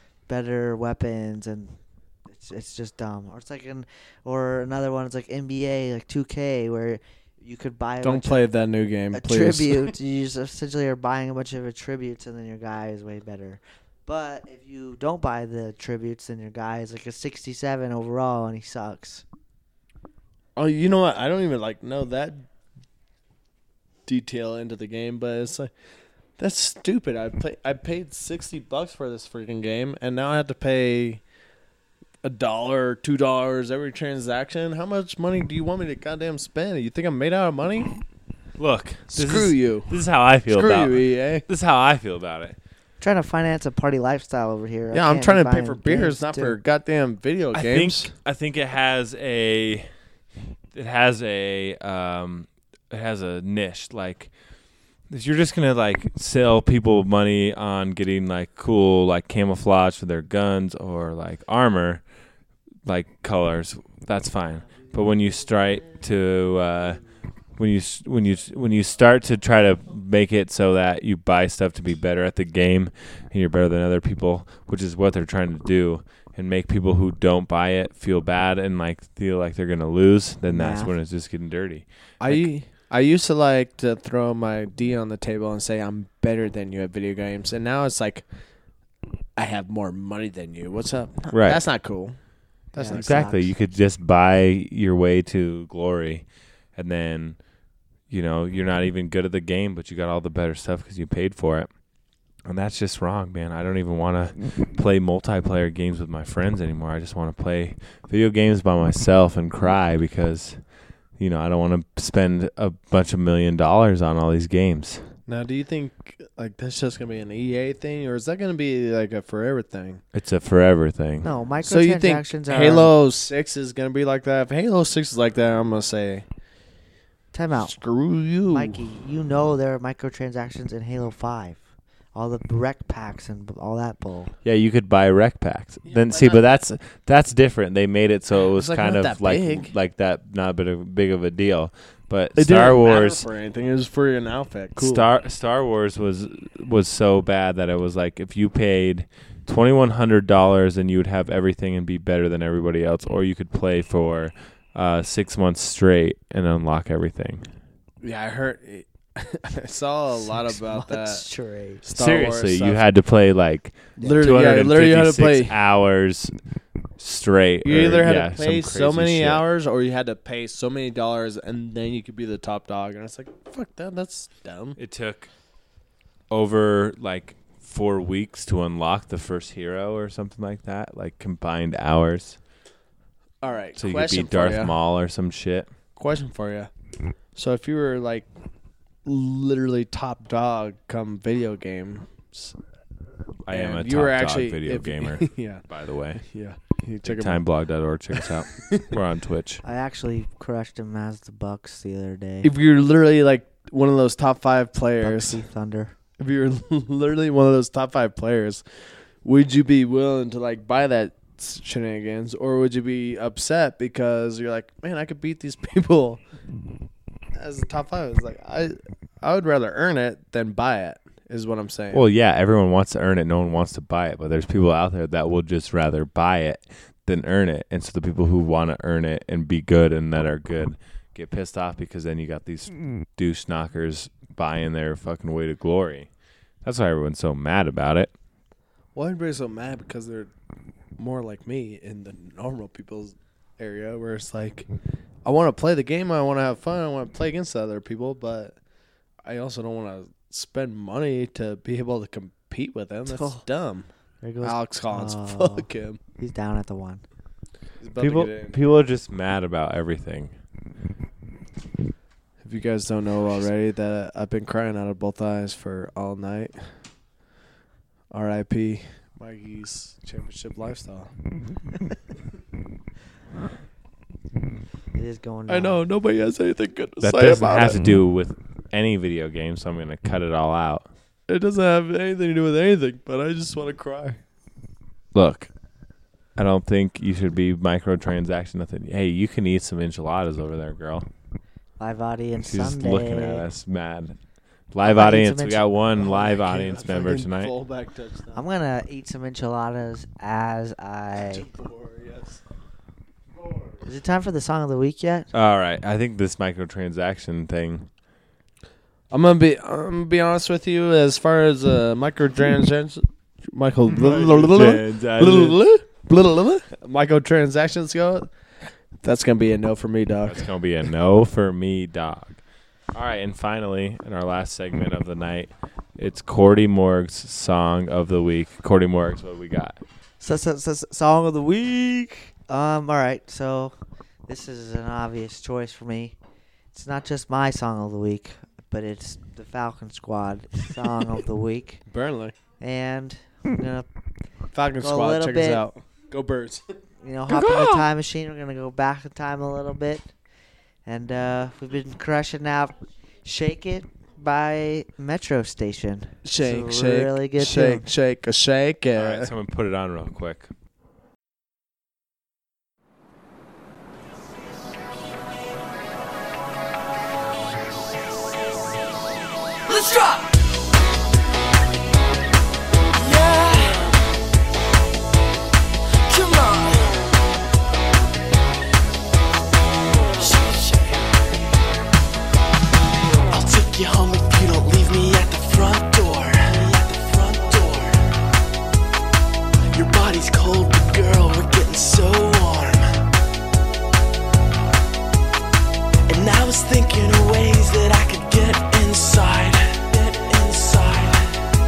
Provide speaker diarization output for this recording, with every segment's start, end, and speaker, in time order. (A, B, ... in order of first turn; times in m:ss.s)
0:00.3-0:08.5 A
0:08.0-0:09.9 B
0:09.1-0:19.2 A
0:20.6-0:22.5 B
0:24.1-0:25.7 B
0:26.4-0:31.2 B
0:32.2-0:38.0 B
0:38.6-0:42.6 C
0:39.1-0:40.0 B
0:40.5-0:41.5 B
0:43.0-0:46.6 A
0:44.9-0:48.1 B
0:47.5-0:49.9 C
0:50.7-0:54.3 C
0:55.1-1:02.0 C
1:02.8-1:07.0 C
1:07.6-1:22.5 C
1:20.5-1:20.9 A
1:22.2-1:28.2 B
1:29.4-1:32.2 B
1:31.3-1:31.6 C
1:32.7-1:33.4 B
1:32.8-1:33.5 A
1:32.9-1:37.4 C
1:38.1-1:41.7 C
1:42.4-1:50.6 C
1:51.2-1:55.0 C
1:55.3-2:00.0 B
2:00.1-2:01.3 C
2:01.2-2:02.9 A
2:01.6-2:06.3 B
2:07.3-2:07.8 A
2:07.6-2:08.8 B
2:08.5-2:11.6 A
2:12.1-2:14.3 A
2:14.4-2:23.3 C
2:15.9-2:16.6 B
2:18.5-2:19.7 B
2:22.4-2:25.1 B
2:24.8-2:37.5 C
2:38.0-2:41.2 B
2:40.2-2:41.8 A
2:41.8-2:42.8 B
2:41.9-2:46.3 C
2:44.0-2:44.2 A
2:44.0-2:45.6 B
2:47.0-2:49.4 C
2:47.6-2:54.8 B
2:54.8-2:55.3 C
2:56.3-3:02.4 C
3:03.4-3:04.8 B
3:03.8-3:05.7 C
3:06.0-3:06.7 B
3:07.4-3:08.3 B
3:09.0-3:12.6 B
3:13.5-3:16.2 C
3:13.5-3:15.6 B
3:16.2-3:17.4 B
3:17.0-3:19.6 C
3:18.1-3:18.9 B
3:19.6-3:22.5 A
3:22.4-3:25.4 B
3:25.0-3:25.9 A
3:26.2-3:28.6 B
3:29.2-3:36.2 B
3:37.4-3:42.0 B
3:41.9-3:56.1 C
3:56.6-3:58.1 C
3:59.0-4:00.3 B
4:01.0-4:04.7 B
4:05.2-4:08.6 B
4:09.2-4:13.9 B
4:13.1-4:13.4 A
4:14.2-4:17.0 A
4:14.4-4:16.0 B
4:17.8-4:18.6 B
4:18.0-4:20.4 C
4:22.4-4:26.7 B
4:28.1-4:31.1 B
4:35.0-4:35.8 A
4:35.5-4:37.8 B
4:37.0-4:40.9 C
4:41.3-4:44.2 B
4:45.1-4:45.5 C
4:46.4-4:51.1 C
4:51.8-4:53.5 A
4:52.4-4:54.2 C
4:54.7-4:57.5 C
4:54.8-4:55.7 A
4:56.0-4:58.4 B
4:58.4-5:01.5 A
5:01.2-5:02.4 B
5:03.8-5:05.3 A
5:05.3-5:07.9 C
5:09.1-5:18.3 B
5:13.9-5:15.6 C
5:19.0-5:20.5 B
5:20.2-5:22.4 C
5:22.9-5:29.8 C
5:30.2-5:33.8 A
5:34.3-5:36.2 A
5:36.7-5:41.8 A
5:41.9-5:42.4 B
5:42.6-5:43.9 A
5:44.5-5:46.6 B
5:44.8-5:45.7 A
5:47.0-5:50.1 A
5:47.3-5:47.9 B
5:50.9-5:57.9 A
5:56.2-5:59.3 B
5:59.0-6:00.5 C
6:09.7-6:10.3 D
6:13.0-6:13.9 D
6:16.1-6:16.9 D
6:20.2-6:21.0 D
6:23.3-6:28.1 D
6:29.7-6:32.9 D
6:36.1-6:41.4 D